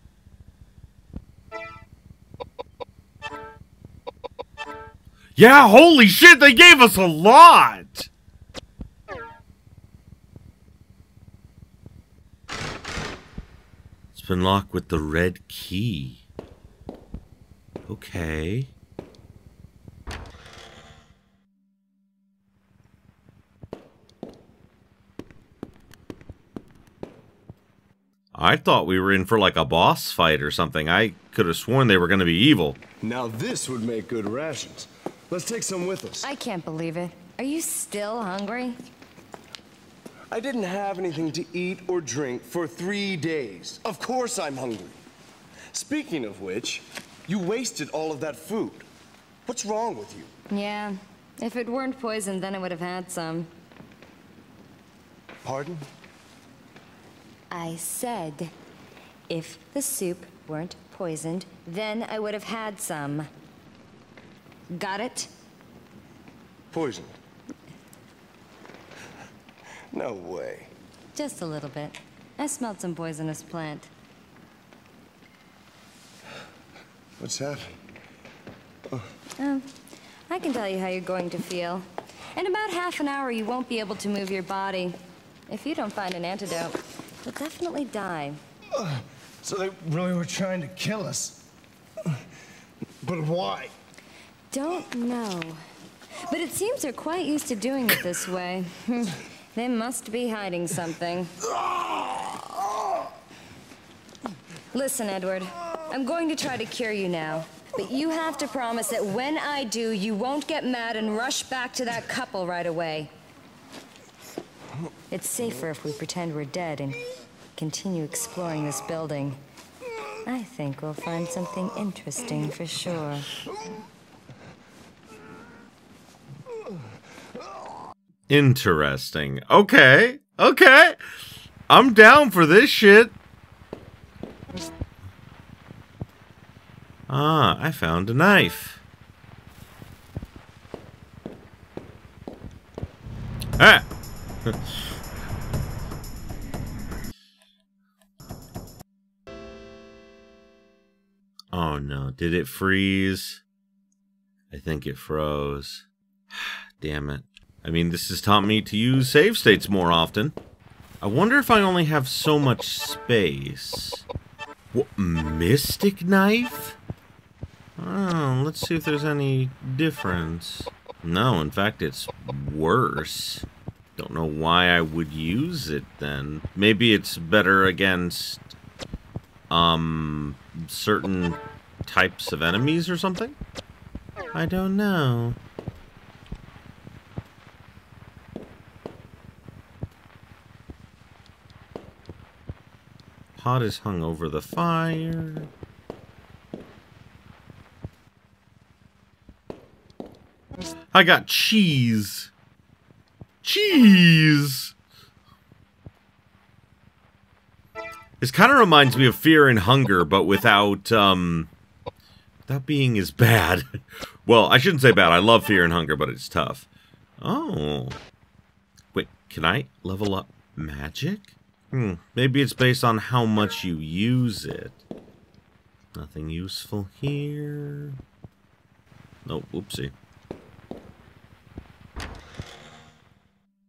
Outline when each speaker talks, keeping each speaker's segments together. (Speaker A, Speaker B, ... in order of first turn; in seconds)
Speaker A: 5.4-8.1, 14.1-16.2, 17.9-18.7, 28.3-32.8, 128.3-131.0, 131.7-133.2, 137.1-138.8, 143.6-143.8, 144.4-144.9, 151.5-153.4, 154.5-160.3, 161.0-164.0, 164.7-166.8, 167.8-178.4, 179.5-183.4, 184.3-185.4, 193.4-195.5, 200.9-202.3, 203.4-204.7, 208.2-211.5, 212.5-216.7, 217.2-218.0, 218.9-224.8, 225.9-228.0, 229.2-229.9
Speaker B: 33.0-36.3, 40.3-45.0, 45.7-48.9, 49.5-50.3, 55.4-55.8, 66.7-67.2, 69.9-70.7, 77.2-77.7, 88.7-91.4, 93.0-93.7
Speaker C: 36.2-38.8, 50.5-53.5, 57.5-58.5, 59.3-63.3, 64.7-65.3, 71.1-73.9, 79.4-79.7, 80.3-85.0, 85.5-88.4, 94.5-95.6, 96.2-101.5, 104.7-113.1, 115.1-117.0, 117.5-119.4, 120.2-123.3